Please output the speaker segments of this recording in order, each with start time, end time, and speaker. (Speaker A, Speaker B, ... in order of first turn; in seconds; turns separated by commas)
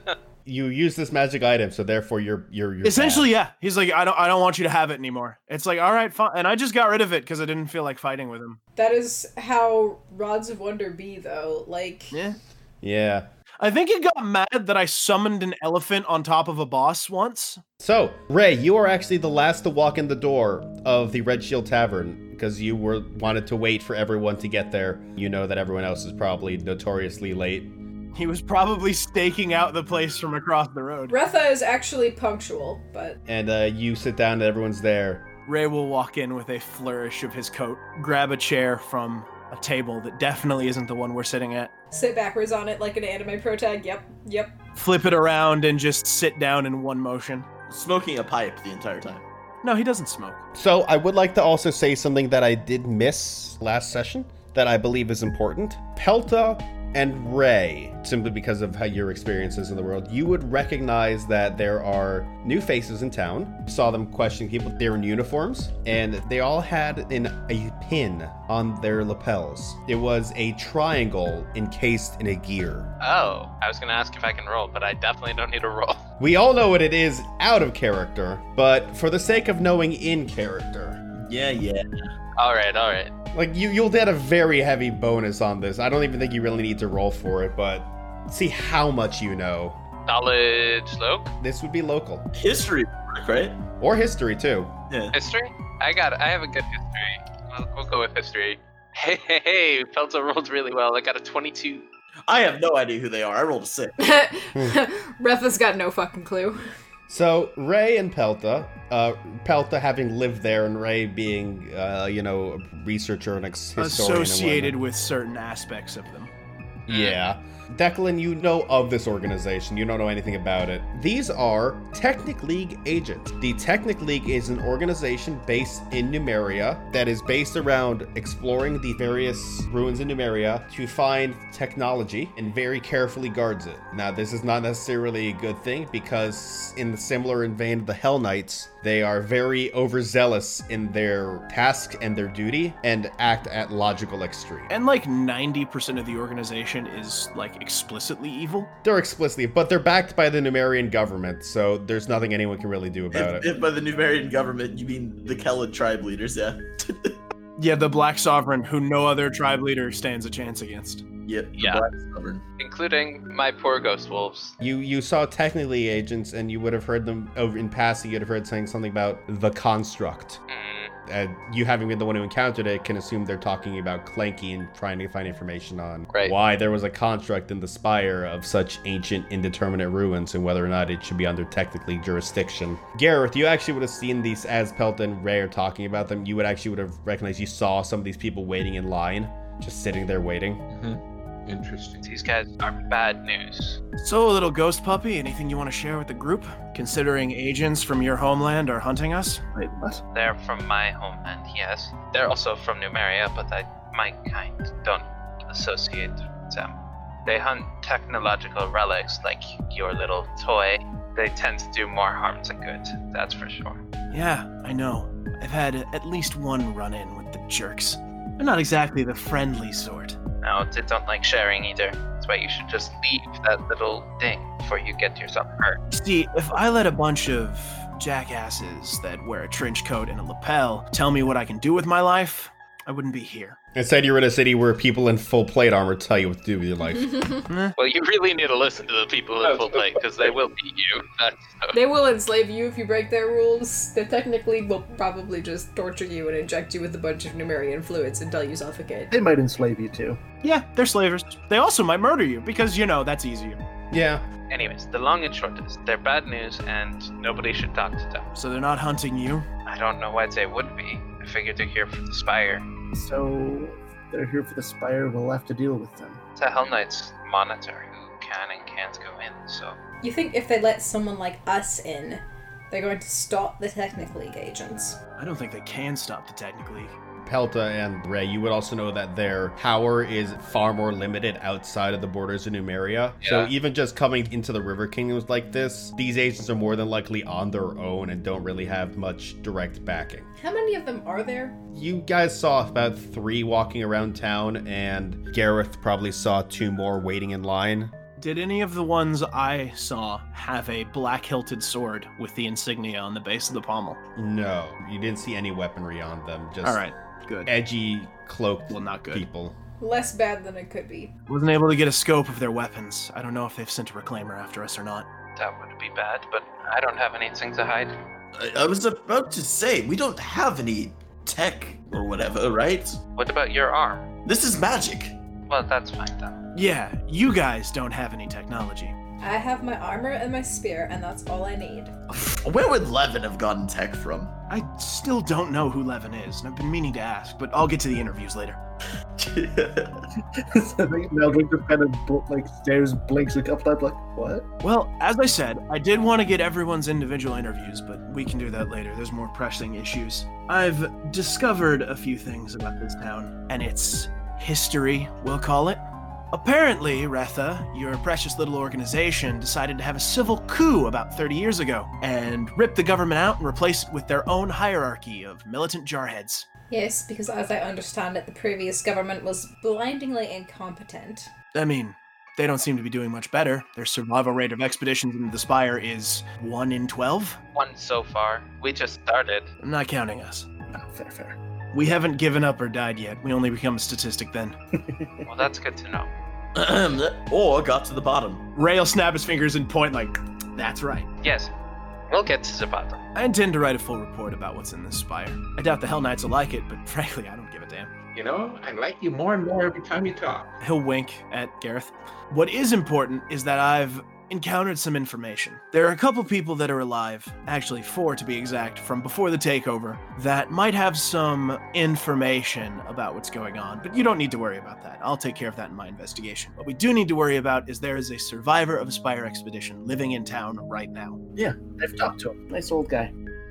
Speaker A: 0.5-3.3, Speaker B: 2.8-8.6, Speaker C: 8.8-12.2, Speaker B: 12.1-12.4, Speaker A: 12.8-13.3, Speaker B: 13.6-17.6, Speaker A: 17.8-27.7, Speaker B: 28.1-31.2, Speaker C: 31.1-33.2, Speaker A: 33.3-35.3, Speaker B: 35.5-41.7, Speaker C: 41.9-44.5, Speaker B: 44.8-47.5, Speaker D: 47.7-49.2, Speaker B: 49.6-50.4, Speaker A: 50.5-72.9, Speaker E: 73.0-76.0, Speaker A: 76.2-81.0, Speaker D: 81.2-81.8, Speaker E: 82.4-83.1, Speaker A: 83.3-89.8, Speaker E: 90.1-91.3, Speaker A: 91.4-92.3, Speaker D: 92.3-93.6, Speaker A: 93.8-94.7, Speaker D: 94.9-95.2, Speaker E: 95.1-101.9, Speaker D: 102.3-104.0, Speaker C: 104.0-106.6, Speaker A: 107.1-114.8, Speaker B: 113.8-116.3, Speaker A: 116.9-144.7, Speaker E: 116.9-117.2, Speaker B: 144.7-148.7, Speaker A: 148.8-153.5, Speaker D: 153.1-157.2, Speaker B: 157.6-161.0, Speaker D: 161.3-162.4, Speaker E: 161.6-161.8, Speaker E: 162.6-164.6, Speaker A: 164.6-170.4, Speaker E: 170.5-170.9, Speaker A: 171.1-190.6, Speaker F: 190.7-192.1, Speaker E: 192.0-193.8, Speaker B: 194.0-199.4, Speaker G: 199.5-200.0, Speaker E: 200.1-206.7, Speaker E: 207.2-213.8, Speaker B: 214.1-220.2, Speaker E: 220.4-225.8, Speaker B: 225.9-233.6, Speaker A: 233.8-237.2, Speaker C: 236.9-237.4, Speaker B: 237.5-237.8, Speaker E: 237.8-241.8, Speaker F: 239.4-240.4, Speaker C: 241.7-249.1, Speaker G: 249.1-250.2, Speaker B: 250.4-253.6, Speaker A: 253.9-254.2, Speaker E: 254.5-258.3, Speaker B: 258.4-259.5, Speaker E: 259.7-262.6, Speaker G: 262.9-266.2, Speaker E: 266.4-269.8, Speaker C: 270.0-275.0, Speaker B: 275.2-276.9, Speaker A: 277.2-290.3, Speaker E: 283.2-283.5, Speaker C: 290.4-291.6, Speaker A: 291.7-297.9, Speaker B: 298.2-304.0, Speaker A: 304.2-306.8, Speaker B: 306.6-307.5, Speaker A: 307.4-309.6, Speaker B: 308.7-309.3, Speaker C: 309.8-311.1, Speaker B: 311.3-315.1, Speaker E: 315.4-318.0, Speaker D: 318.4-323.0, Speaker E: 323.1-324.1, Speaker D: 324.2-325.2, Speaker E: 325.5-326.4, Speaker B: 326.5-328.9, Speaker C: 329.2-331.9, Speaker D: 332.1-334.3, Speaker B: 334.5-338.6, Speaker D: 339.2-340.0, Speaker G: 340.4-344.5, Speaker B: 344.6-355.8, Speaker B: 356.3-366.5, Speaker C: 366.7-371.3, Speaker B: 371.5-377.4, Speaker E: 377.5-379.5, Speaker B: 379.6-380.5, Speaker G: 380.7-381.4, Speaker B: 381.7-384.6, Speaker G: 384.9-385.2, Speaker E: 385.3-386.1, Speaker D: 386.6-388.4, Speaker B: 388.6-391.1, Speaker E: 391.2-391.5, Speaker E: 392.1-393.1, Speaker B: 393.1-397.9, Speaker F: 398.1-400.5, Speaker B: 400.6-421.2, Speaker G: 421.4-423.1